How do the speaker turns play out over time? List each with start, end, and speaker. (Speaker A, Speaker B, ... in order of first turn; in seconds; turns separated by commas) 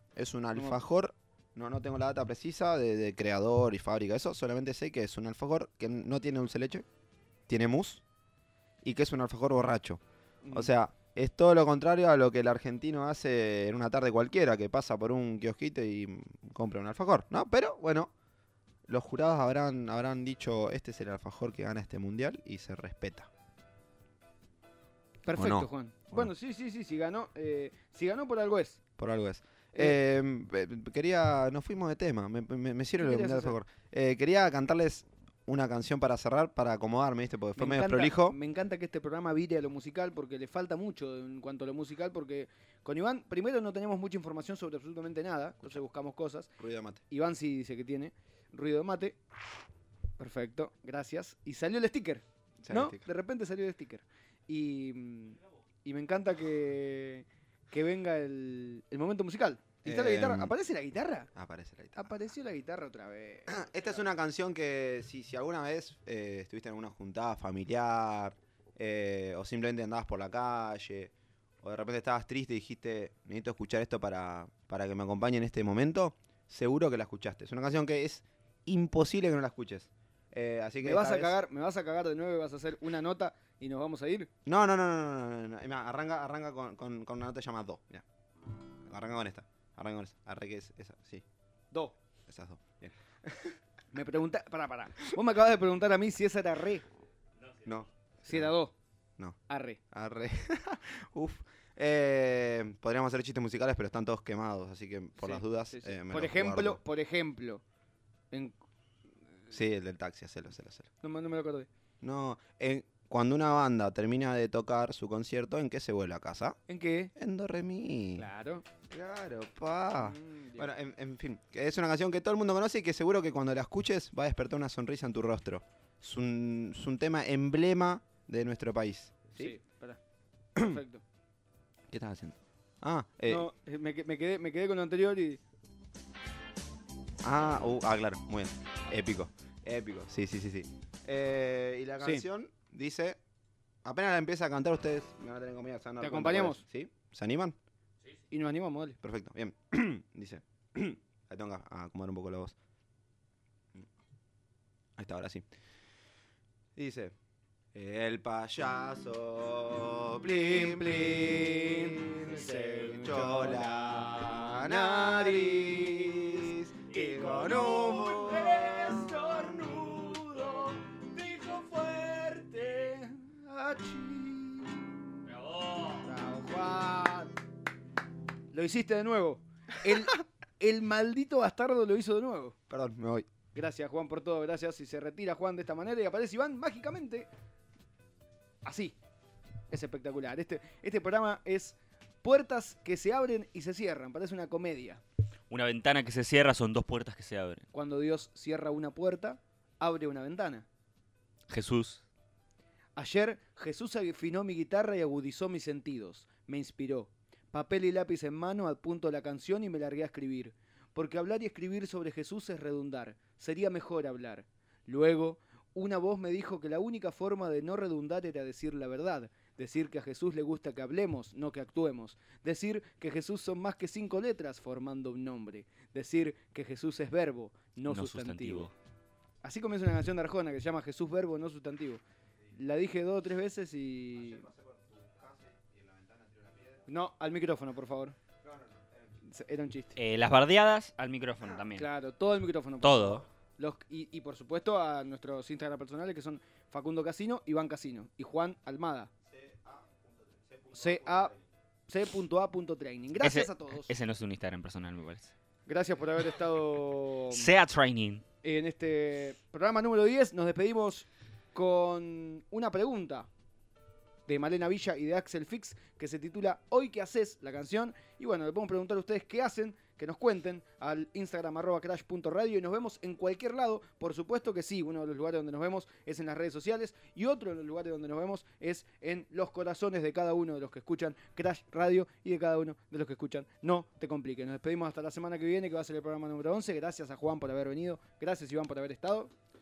Speaker A: 0.2-6.8, Speaker A: 7.5-8.0, Speaker A: 8.8-10.0, Speaker B: 10.4-10.7, Speaker A: 10.5-18.1, Speaker A: 18.9-23.3, Speaker B: 25.2-28.8, Speaker A: 25.4-26.3, Speaker A: 29.0-38.4, Speaker B: 33.0-33.6, Speaker B: 37.6-46.5, Speaker A: 46.6-47.0, Speaker B: 47.1-49.2, Speaker B: 50.2-61.3, Speaker A: 52.6-53.0, Speaker A: 59.8-60.5, Speaker A: 61.4-62.3, Speaker B: 62.0-64.0, Speaker A: 63.5-81.4, Speaker B: 80.8-84.3, Speaker A: 84.5-88.0, Speaker A: 88.9-91.2, Speaker A: 92.3-92.9, Speaker B: 93.9-96.8, Speaker A: 97.6-98.5, Speaker B: 98.3-98.7, Speaker B: 99.5-99.8, Speaker A: 99.9-106.8, Speaker B: 105.2-107.6, Speaker A: 109.5-110.9, Speaker B: 111.0-111.7, Speaker A: 112.0-116.6, Speaker B: 116.7-117.1, Speaker A: 117.2-118.3, Speaker B: 118.2-118.7, Speaker A: 118.9-129.6, Speaker B: 120.0-120.7, Speaker B: 129.4-130.0, Speaker B: 130.6-131.0, Speaker A: 131.9-133.5, Speaker B: 133.3-135.4, Speaker A: 137.2-143.2, Speaker A: 143.8-147.6, Speaker B: 146.0-146.6, Speaker B: 148.3-149.0, Speaker A: 149.0-152.6, Speaker A: 155.0-155.5, Speaker A: 156.8-157.2, Speaker A: 157.7-169.2, Speaker B: 160.4-174.9, Speaker C: 175.3-175.9, Speaker B: 175.9-177.3, Speaker B: 178.5-182.6, Speaker A: 182.7-183.3, Speaker B: 183.5-187.3, Speaker B: 188.6-189.0, Speaker B: 189.7-195.0, Speaker C: 195.5-197.7, Speaker B: 197.7-200.7, Speaker C: 201.5-202.0, Speaker B: 203.0-228.7, Speaker C: 227.9-228.7, Speaker B: 229.4-234.5, Speaker A: 234.1-236.9, Speaker B: 236.9-238.2, Speaker A: 238.4-239.0, Speaker B: 239.3-240.0, Speaker C: 240.0-241.9, Speaker B: 241.8-249.1, Speaker C: 242.8-243.2, Speaker A: 249.3-251.5, Speaker B: 250.7-251.3, Speaker B: 251.9-253.9, Speaker C: 253.2-255.3, Speaker B: 255.7-257.5, Speaker C: 257.3-258.2, Speaker B: 258.4-263.3, Speaker B: 264.3-289.3